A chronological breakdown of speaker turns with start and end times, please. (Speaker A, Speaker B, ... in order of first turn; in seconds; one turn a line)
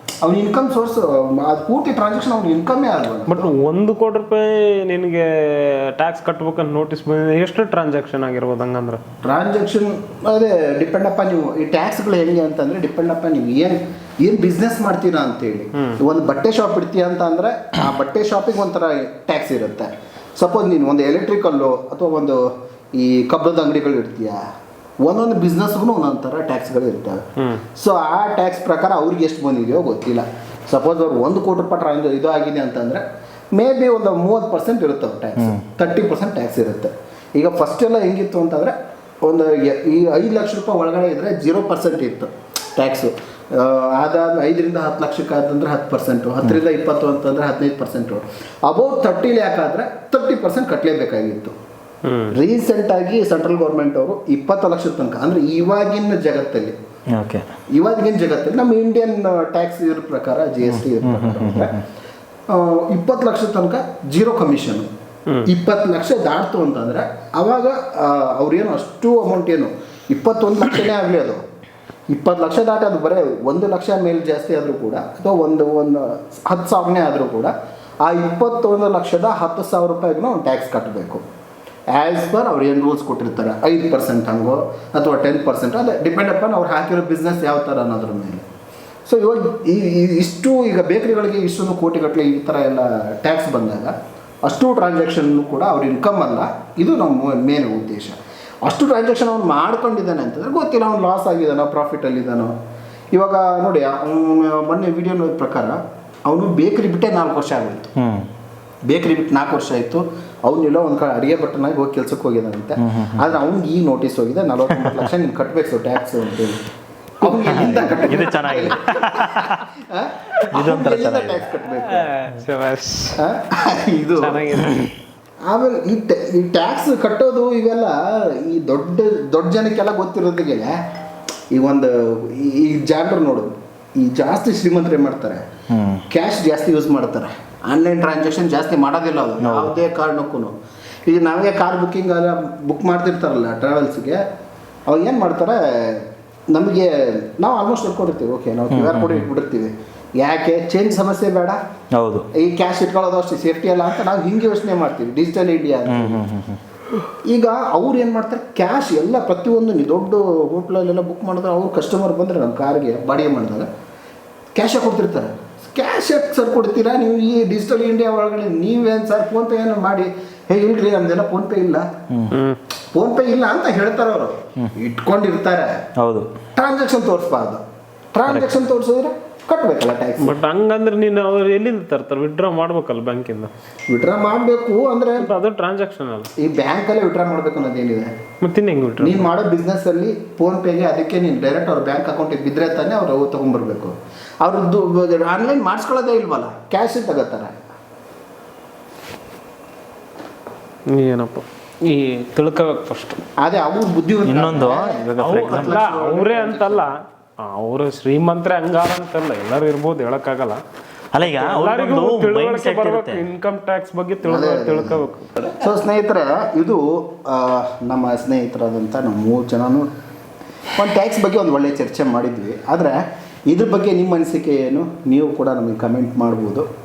Speaker A: 0.2-3.5
Speaker B: 3.3-9.0
Speaker A: 9.2-24.4
Speaker A: 25.0-27.2
Speaker A: 27.8-33.0
Speaker A: 33.5-51.5
Speaker B: 52.0-52.3
Speaker A: 52.3-56.7
Speaker C: 57.1-57.5
Speaker A: 57.7-61.7
Speaker C: 60.6-61.8
Speaker A: 62.5-64.9
Speaker A: 65.5-71.4
Speaker A: 72.1-81.2
Speaker A: 81.9-88.4
Speaker A: 89.0-102.5
Speaker A: 103.1-107.9
Speaker C: 108.0-108.3
Speaker A: 108.9-116.6
Speaker C: 112.8-113.3
Speaker C: 114.7-115.1
Speaker A: 117.2-122.1
Speaker C: 117.2-119.6
Speaker C: 120.5-121.5
Speaker B: 121.7-123.2
Speaker A: 123.2-124.5
Speaker B: 124.2-124.9
Speaker A: 125.5-130.8
Speaker A: 131.5-135.4
Speaker C: 135.7-136.0
Speaker A: 136.1-140.5
Speaker C: 139.4-139.8
Speaker A: 141.1-144.2
Speaker A: 144.9-151.6
Speaker C: 148.7-149.3
Speaker C: 151.9-152.3
Speaker A: 152.3-156.2
Speaker C: 155.9-156.6
Speaker A: 157.1-163.7
Speaker A: 164.6-171.9
Speaker C: 172.1-172.3
Speaker B: 172.3-172.6
Speaker A: 172.9-175.8
Speaker C: 176.0-176.3
Speaker A: 176.6-177.6
Speaker A: 178.1-180.3
Speaker B: 180.2-183.5
Speaker A: 183.9-185.3
Speaker B: 185.2-186.3
Speaker A: 186.4-188.1
Speaker B: 188.4-189.3
Speaker A: 189.0-197.6
Speaker B: 200.9-203.2
Speaker A: 203.4-206.9
Speaker C: 204.2-205.8
Speaker B: 205.2-206.9
Speaker B: 207.4-210.6
Speaker C: 211.1-213.2
Speaker B: 211.2-215.4
Speaker A: 214.2-215.0
Speaker A: 215.6-219.9
Speaker A: 220.7-223.0
Speaker A: 223.5-226.7